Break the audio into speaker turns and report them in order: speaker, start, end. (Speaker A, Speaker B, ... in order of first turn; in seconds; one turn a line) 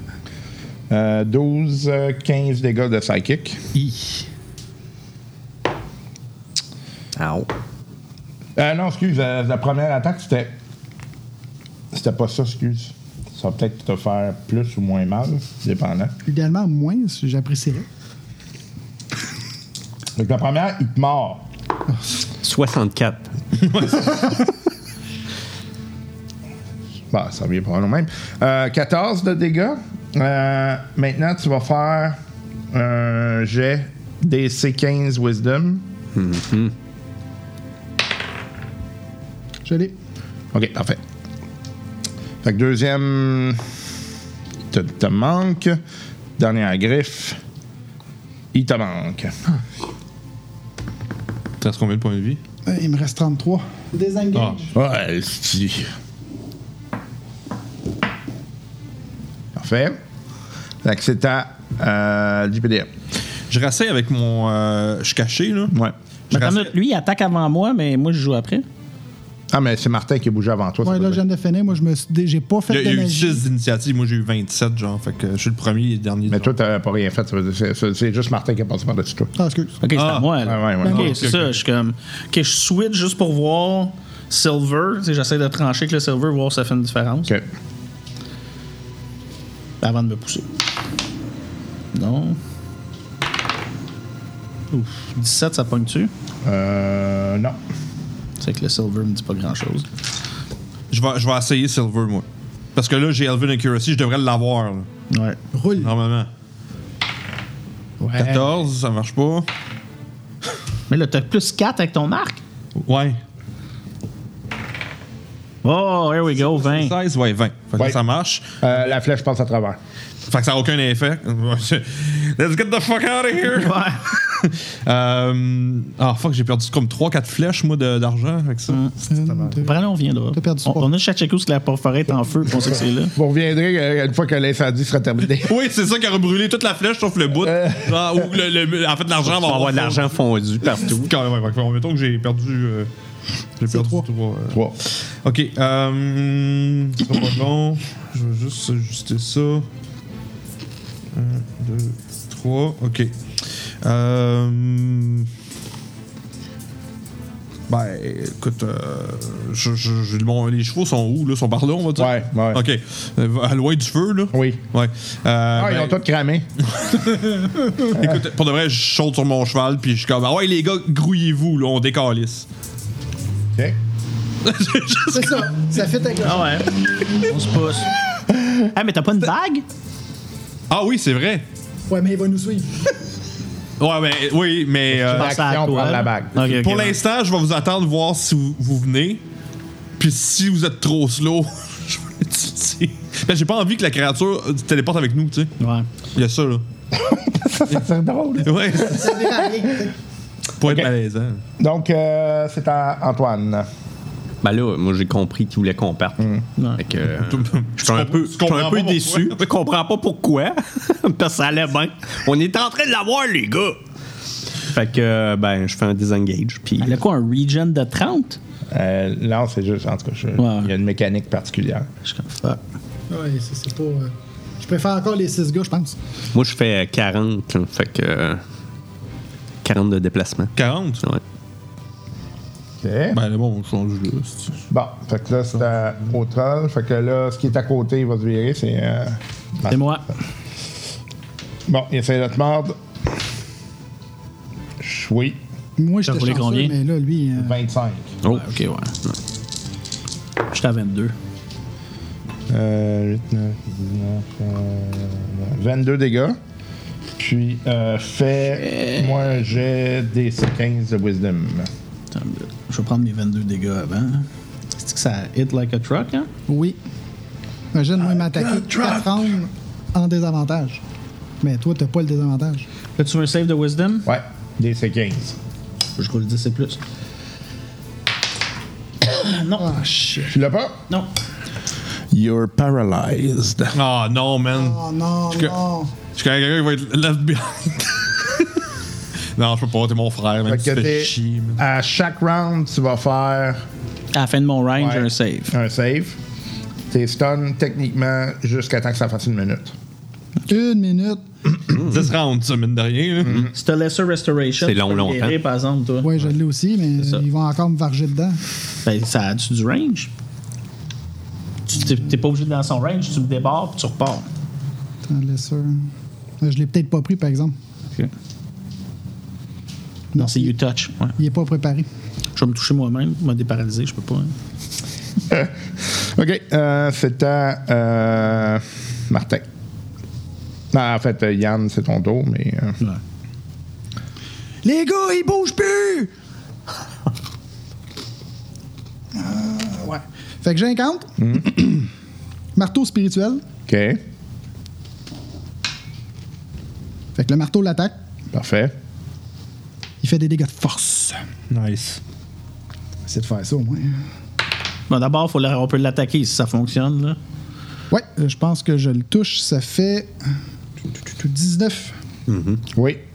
Speaker A: 0.9-3.6
Speaker B: 7.2-7.5
Speaker A: 8.6-10.5
Speaker A: 11.9-16.1
Speaker C: 16.2-17.9
Speaker A: 20.1-21.5
Speaker B: 22.4-23.3
Speaker D: 23.6-24.4
Speaker A: 27.1-32.2
Speaker A: 32.7-35.9
Speaker B: 36.1-36.7
Speaker C: 39.6-39.9
Speaker A: 40.5-41.0
Speaker A: 42.4-43.6
Speaker A: 44.7-45.8
Speaker A: 46.4-47.4
Speaker A: 48.5-49.3
Speaker D: 51.6-52.4
Speaker C: 52.6-54.7
Speaker D: 54.3-54.6
Speaker A: 54.7-55.9
Speaker A: 59.5-60.0
Speaker A: 60.8-62.9
Speaker D: 63.5-65.8
Speaker D: 66.3-66.7
Speaker E: 66.3-68.7
Speaker A: 69.5-71.2
Speaker C: 70.8-73.4
Speaker D: 72.7-76.5
Speaker A: 76.3-79.3
Speaker C: 79.3-79.8
Speaker E: 79.8-87.3
Speaker D: 79.9-81.6
Speaker A: 80.4-81.1
Speaker E: 89.8-90.5
Speaker E: 91.9-92.4
Speaker E: 94.7-96.1
Speaker A: 96.4-97.6
Speaker E: 98.4-99.9
Speaker D: 100.9-104.9
Speaker E: 105.1-105.4
Speaker C: 105.5-105.9
Speaker D: 105.8-106.3
Speaker D: 108.2-109.5
Speaker E: 110.9-112.4
Speaker D: 112.8-113.2
Speaker E: 115.6-117.0
Speaker D: 116.4-118.6
Speaker A: 118.6-119.8
Speaker D: 120.3-129.7
Speaker E: 123.5-124.1
Speaker C: 129.1-129.8
Speaker E: 129.6-133.1
Speaker C: 130.3-130.9
Speaker A: 133.1-135.5
Speaker D: 135.4-140.0
Speaker A: 137.4-138.2
Speaker B: 139.2-141.1
Speaker D: 140.9-142.9
Speaker D: 143.6-149.7
Speaker C: 143.7-144.0
Speaker D: 151.1-153.1
Speaker D: 153.8-155.3
Speaker D: 157.7-166.0
Speaker A: 162.0-162.6
Speaker A: 164.3-164.6
Speaker A: 165.5-166.4
Speaker D: 166.7-172.4
Speaker A: 167.9-168.2
Speaker D: 174.4-175.5
Speaker C: 175.1-176.5
Speaker E: 176.2-176.7
Speaker E: 177.2-177.9
Speaker E: 178.7-179.6
Speaker D: 180.7-181.4
Speaker C: 181.9-182.9
Speaker D: 183.8-185.4
Speaker A: 184.9-186.3
Speaker E: 185.1-187.0
Speaker D: 186.4-189.2
Speaker D: 190.0-195.5
Speaker E: 195.6-195.9
Speaker D: 196.1-196.6
Speaker A: 196.9-199.8
Speaker D: 198.4-199.2
Speaker C: 198.8-199.9
Speaker D: 200.6-201.4
Speaker A: 200.6-200.9
Speaker A: 201.6-203.7
Speaker B: 204.4-213.8
Speaker D: 207.1-209.4
Speaker B: 214.6-217.0
Speaker E: 216.8-218.4
Speaker A: 218.7-221.9
Speaker E: 220.4-220.7
Speaker E: 222.0-222.6
Speaker C: 223.1-226.0
Speaker B: 226.3-228.4
Speaker B: 229.6-231.2
Speaker D: 230.6-231.0
Speaker A: 232.8-233.2
Speaker D: 233.1-234.6
Speaker A: 234.7-239.7
Speaker E: 239.7-240.1
Speaker A: 241.7-242.8
Speaker A: 244.8-245.4
Speaker C: 245.8-247.6
Speaker E: 246.0-246.7
Speaker A: 247.4-248.1
Speaker E: 248.3-248.9
Speaker E: 250.5-251.1
Speaker A: 252.5-256.4
Speaker A: 257.2-261.7
Speaker E: 258.7-259.0
Speaker E: 262.1-266.3
Speaker C: 266.5-266.8
Speaker C: 267.7-270.8
Speaker A: 268.0-269.3
Speaker C: 271.4-272.7
Speaker E: 273.0-274.1
Speaker A: 274.1-275.3
Speaker E: 276.0-276.8
Speaker E: 279.0-280.3
Speaker C: 279.6-280.0
Speaker A: 280.3-280.8
Speaker A: 282.1-283.7
Speaker D: 283.7-285.6
Speaker C: 284.5-285.9
Speaker D: 286.1-288.6
Speaker D: 289.4-291.6
Speaker A: 290.5-293.6
Speaker E: 294.1-295.5
Speaker A: 294.8-296.2
Speaker A: 296.9-299.7
Speaker C: 300.5-301.2
Speaker D: 301.7-303.5
Speaker E: 303.5-306.1
Speaker B: 304.6-305.4
Speaker C: 306.0-308.4
Speaker E: 308.8-310.1
Speaker E: 311.7-314.3
Speaker C: 315.1-315.8
Speaker C: 316.4-317.5
Speaker C: 320.1-320.5
Speaker E: 320.1-321.1
Speaker C: 321.1-321.9
Speaker E: 322.4-324.3
Speaker A: 325.3-329.4
Speaker A: 330.7-332.8
Speaker C: 334.6-336.1
Speaker C: 339.1-341.9
Speaker A: 341.2-341.4
Speaker C: 342.5-343.4
Speaker A: 343.7-344.0
Speaker C: 347.1-347.9
Speaker A: 348.3-348.7
Speaker C: 350.0-351.2
Speaker D: 351.5-352.0
Speaker C: 353.1-354.0
Speaker E: 354.9-357.2
Speaker C: 357.9-360.1
Speaker C: 360.9-361.9
Speaker B: 362.3-362.6
Speaker A: 362.7-363.0